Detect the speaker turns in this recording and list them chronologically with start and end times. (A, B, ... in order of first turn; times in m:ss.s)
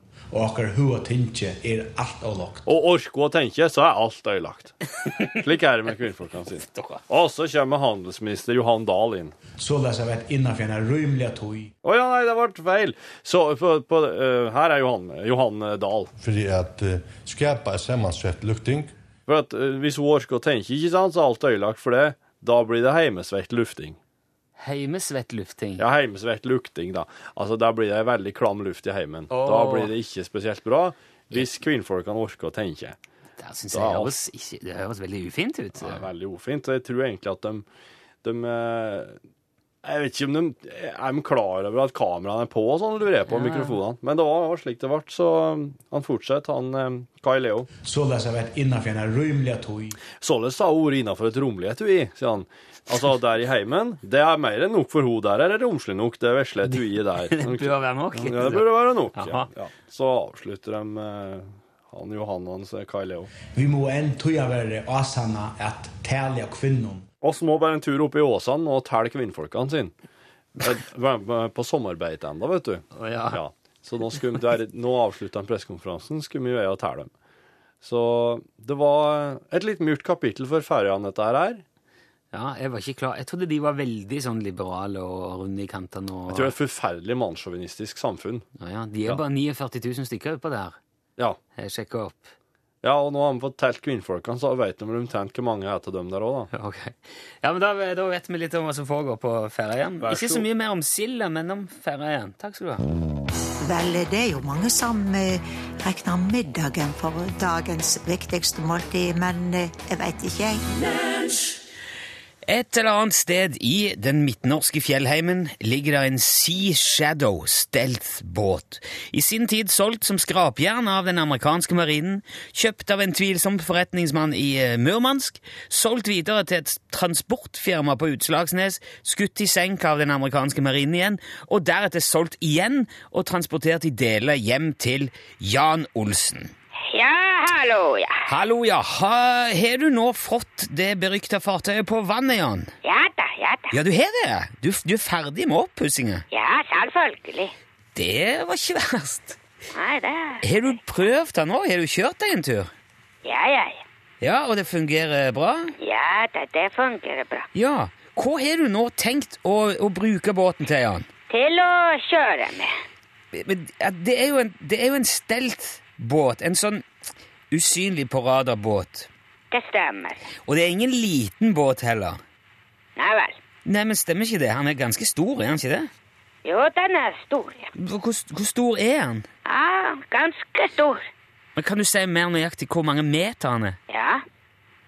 0:00.3-0:02.6 A
0:02.7-0:04.8 B
0:05.0-0:05.4 C
0:05.3-0:09.4 B
0:06.6-0:07.0 C
0:09.5-0:11.7 A
0:11.8-0:16.1 B
0:16.2-0:18.9 D
0:19.3-0:24.0 B
0:24.6-0:25.8 C
0:25.8-0:33.0 B
0:29.3-0:29.9 C
0:33.4-0:36.1 C
0:33.7-0:34.2 B
0:35.8-0:37.7 B
0:38.2-0:39.2 B
0:39.8-0:47.7 B
0:43.3-0:43.8 C
0:47.8-0:50.0 A
0:50.2-1:03.3 B
0:56.7-0:59.5 C
1:03.5-1:07.1 A
1:07.2-1:10.0 B
1:10.6-1:17.1 B
1:12.9-1:13.4 C
1:17.8-1:21.6 B
1:22.3-1:26.5 C
1:26.3-1:28.5 B
1:28.6-1:30.8 C
1:31.6-1:32.3 C
1:32.8-1:36.5 B
1:36.5-1:42.8 C
1:40.0-1:40.5 B
1:43.6-1:50.6 E
1:52.5-2:16.5 C
2:16.8-2:18.2 F
2:18.3-2:22.7 C
2:22.8-2:23.7 F
2:23.7-2:26.2 C
2:26.3-2:27.5 F
2:28.0-2:29.4 C
2:29.7-2:30.4 F
2:30.4-2:32.7 C
2:33.2-2:33.8 F
2:34.2-2:35.7 C
2:35.8-2:37.5 F
2:37.5-2:41.1 C
2:41.3-2:42.7 F
2:43.3-2:46.8 C
2:47.5-2:49.1 C
2:49.5-2:50.2 F
2:50.5-2:52.2 C
2:53.0-2:53.4 F
2:53.6-2:55.9 C
2:56.4-2:57.7 F
2:57.8-2:59.3 C
2:59.5-3:01.1 F
3:01.6-3:03.8 C
3:03.9-3:04.2 F